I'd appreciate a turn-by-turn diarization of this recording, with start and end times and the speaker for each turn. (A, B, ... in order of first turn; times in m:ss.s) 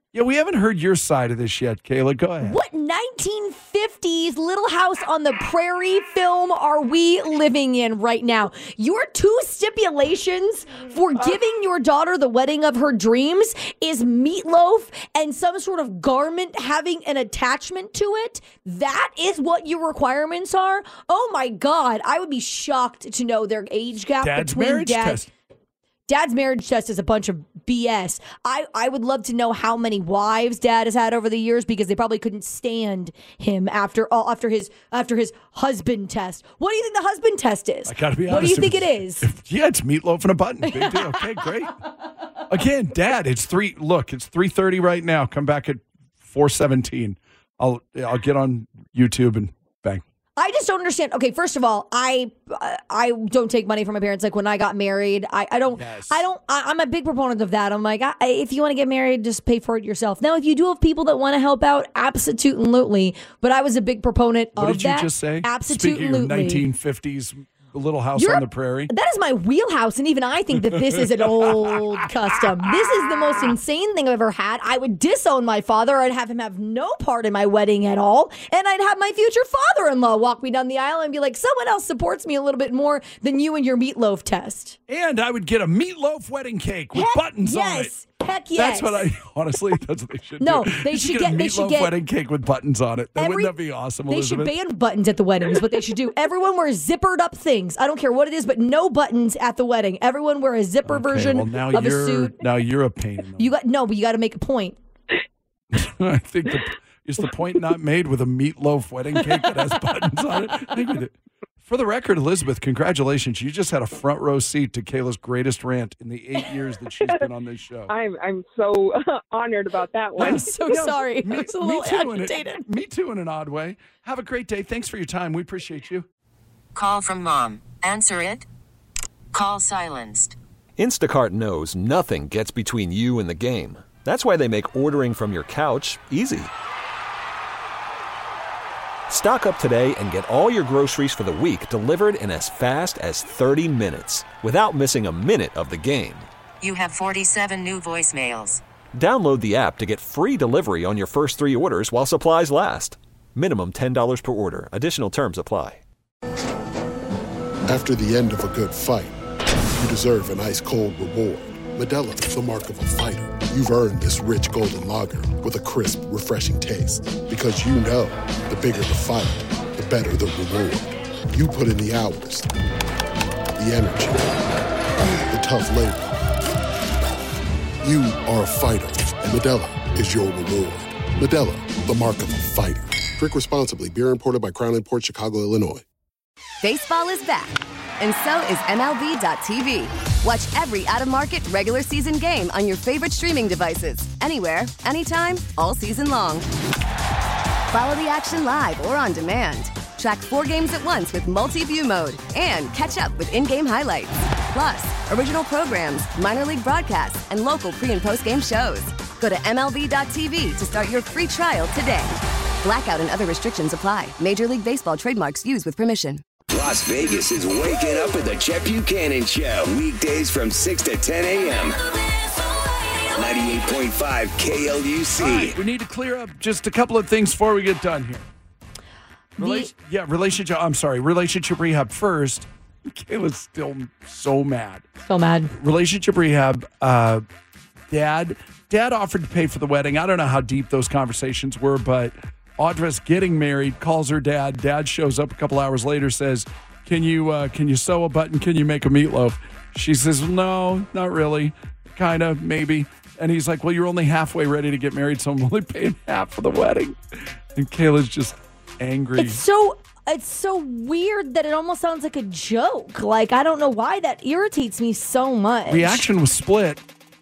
0:00.1-0:02.6 A
0:02.4-0:25.2 B
0:24.2-0:25.3 A
0:26.1-0:39.2 B
0:37.9-0:41.8 A
0:40.7-0:41.2 B
0:42.5-0:50.0 A
0:50.4-1:06.6 B
0:55.8-0:56.2 A
1:04.6-1:08.9 A
1:08.2-1:24.8 B
1:11.4-1:11.8 A
1:12.9-1:13.5 A
1:24.9-1:27.9 A
1:26.9-1:29.0 B
1:28.5-1:34.5 A
1:30.4-1:31.9 B
1:33.2-1:33.5 B
1:34.1-1:42.4 B
1:40.8-1:43.5 A
1:43.4-1:44.8 B
1:45.7-1:51.1 A
1:51.6-1:57.9 A
1:57.9-2:00.5 C
2:00.2-2:06.0 A
2:00.2-2:02.6 B
2:06.7-2:08.4 D
2:09.3-2:10.3 D
2:10.8-2:16.5 E
2:19.1-2:26.3 E
2:26.6-2:28.6 D
2:28.9-2:35.8 E
2:37.7-2:39.1 F
2:39.8-2:52.5 F
2:53.6-2:54.4 F
2:55.3-2:56.1 F
2:57.8-3:05.8 F
3:06.6-3:16.5 G
3:17.7-3:36.2 G
3:36.5-3:41.8 H
3:43.1-3:45.6 H
3:45.2-3:48.2 A
3:49.4-3:54.9 A
3:49.4-3:49.7 B
3:55.0-3:55.5 B
3:55.6-3:57.2 A
3:57.9-4:17.0 A
4:17.5-4:19.4 A
4:19.2-4:26.0 B
4:25.7-4:26.8 A